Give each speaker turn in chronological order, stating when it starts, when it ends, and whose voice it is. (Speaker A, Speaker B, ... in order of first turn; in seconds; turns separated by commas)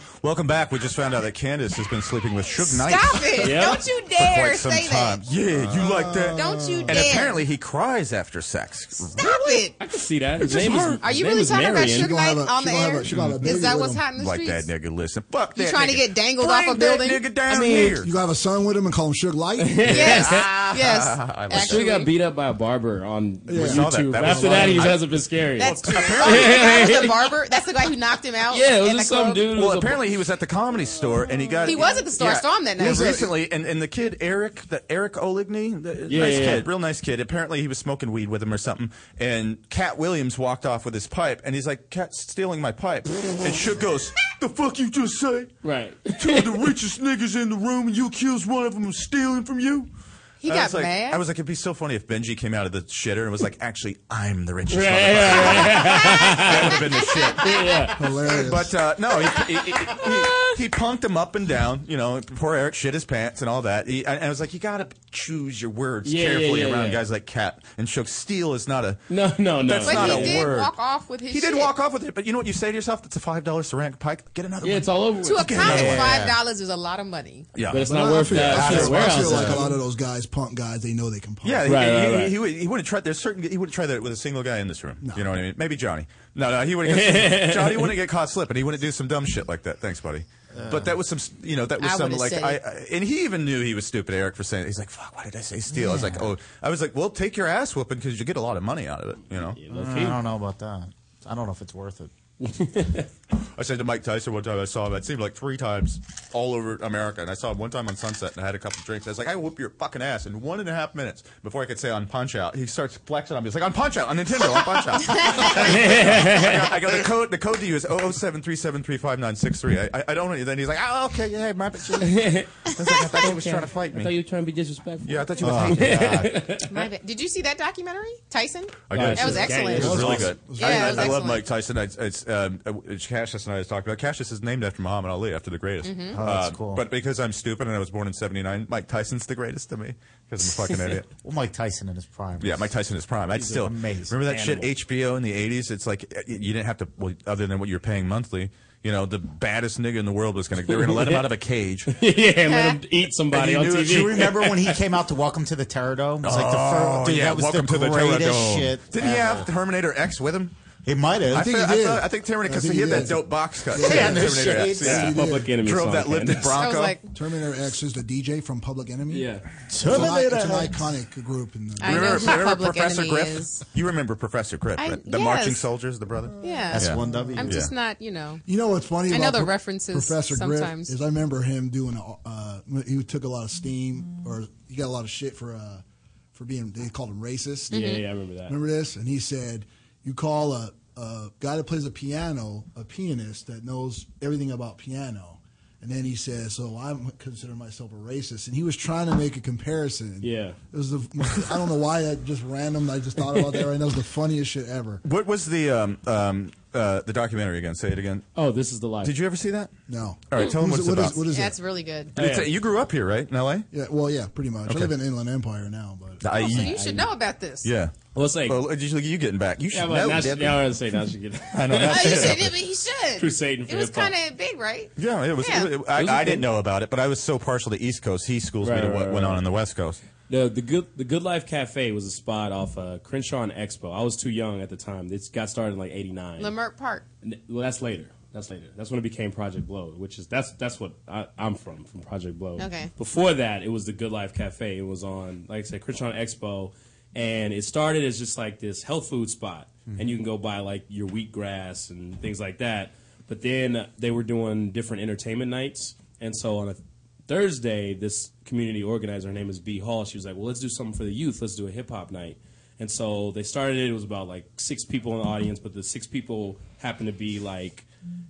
Speaker A: 0.2-9.4, Speaker B: 2.5-5.2, Speaker C: 3.4-3.8, Speaker D: 5.5-7.2, Speaker B: 6.3-7.4, Speaker B: 9.2-9.8, Speaker C: 9.8-12.1, Speaker A: 10.5-11.0, Speaker B: 10.9-14.7, Speaker D: 11.8-14.0, Speaker A: 13.1-13.6, Speaker A: 14.2-18.1, Speaker B: 15.6-17.3, Speaker C: 17.5-18.0, Speaker D: 18.0-20.2, Speaker C: 19.6-20.5, Speaker B: 19.9-22.1, Speaker A: 20.1-21.9, Speaker C: 21.5-27.3, Speaker D: 23.5-25.0, Speaker A: 23.5-27.0, Speaker B: 25.6-29.5, Speaker C: 28.5-30.0, Speaker A: 29.5-45.5, Speaker B: 31.6-33.2, Speaker D: 32.8-33.3, Speaker C: 36.1-36.7, Speaker C: 45.6-46.7, Speaker A: 46.1-49.9, Speaker B: 50.4-51.2, Speaker A: 50.4-69.0, Speaker C: 54.7-58.0, Speaker D: 58.0-58.8, Speaker C: 66.0-67.0, Speaker C: 69.1-70.5, Speaker A: 69.6-70.7, Speaker B: 69.8-71.7, Speaker A: 71.3-76.4, Speaker C: 74.6-76.1, Speaker B: 75.2-77.5, Speaker A: 77.5-79.6, Speaker C: 77.7-79.8, Speaker D: 77.8-81.7, Speaker E: 79.2-79.5, Speaker A: 81.4-99.6, Speaker C: 81.7-82.4, Speaker D: 85.0-85.3, Speaker C: 86.9-88.0, Speaker E: 90.5-90.9, Speaker B: 91.8-92.6, Speaker E: 95.7-96.3, Speaker C: 99.5-100.2, Speaker E: 99.7-102.1, Speaker C: 102.4-103.1, Speaker A: 103.3-124.1, Speaker C: 115.4-116.8, Speaker C: 122.0-126.8, Speaker A: 125.0-126.2, Speaker E: 125.4-126.4, Speaker B: 126.6-131.5, Speaker A: 128.9-141.1, Speaker C: 128.9-130.3, Speaker D: 129.7-131.2, Speaker B: 135.8-136.2, Speaker E: 136.1-136.8, Speaker E: 141.2-142.7, Speaker A: 142.4-151.9, Speaker C: 143.4-143.7, Speaker E: 143.5-144.2, Speaker C: 144.3-144.7, Speaker C: 150.7-151.3, Speaker C: 151.9-154.8, Speaker B: 152.5-152.8, Speaker A: 153.3-154.0, Speaker E: 153.8-159.5, Speaker A: 156.2-160.6, Speaker E: 160.8-161.5, Speaker A: 161.3-167.0, Speaker D: 161.3-165.6, Speaker E: 163.7-165.2, Speaker C: 164.8-166.5, Speaker B: 166.6-167.1, Speaker D: 167.1-172.4, Speaker C: 169.1-169.5, Speaker E: 169.7-170.8, Speaker B: 171.8-173.6, Speaker A: 171.8-177.7, Speaker B: 174.8-175.7, Speaker B: 176.4-178.4, Speaker E: 176.7-177.6, Speaker D: 177.1-177.5, Speaker D: 178.4-185.8, Speaker B: 179.1-180.9, Speaker D: 186.3-187.8, Speaker B: 187.7-188.0, Speaker C: 187.7-188.6, Speaker D: 188.5-205.0, Speaker C: 200.2-200.6, Speaker C: 203.3-203.7, Speaker A: 205.0-208.3, Speaker C: 208.4-209.2, Speaker A: 209.0-209.7, Speaker D: 209.9-211.6, Speaker A: 210.3-211.2, Speaker B: 211.3-212.1, Speaker C: 212.2-212.5, Speaker A: 212.2-213.7, Speaker D: 213.7-216.2, Speaker A: 214.7-214.9, Speaker A: 216.2-216.8, Speaker B: 216.3-217.7, Speaker A: 217.6-220.7, Speaker C: 218.1-218.6, Speaker C: 219.7-222.5, Speaker A: 221.5-222.6, Speaker B: 221.8-225.7, Speaker C: 223.2-224.1, Speaker A: 225.0-230.0, Speaker C: 226.0-226.5, Speaker C: 228.6-229.4, Speaker C: 230.3-236.6, Speaker B: 236.4-237.0, Speaker C: 237.2-267.9, Speaker B: 242.6-242.9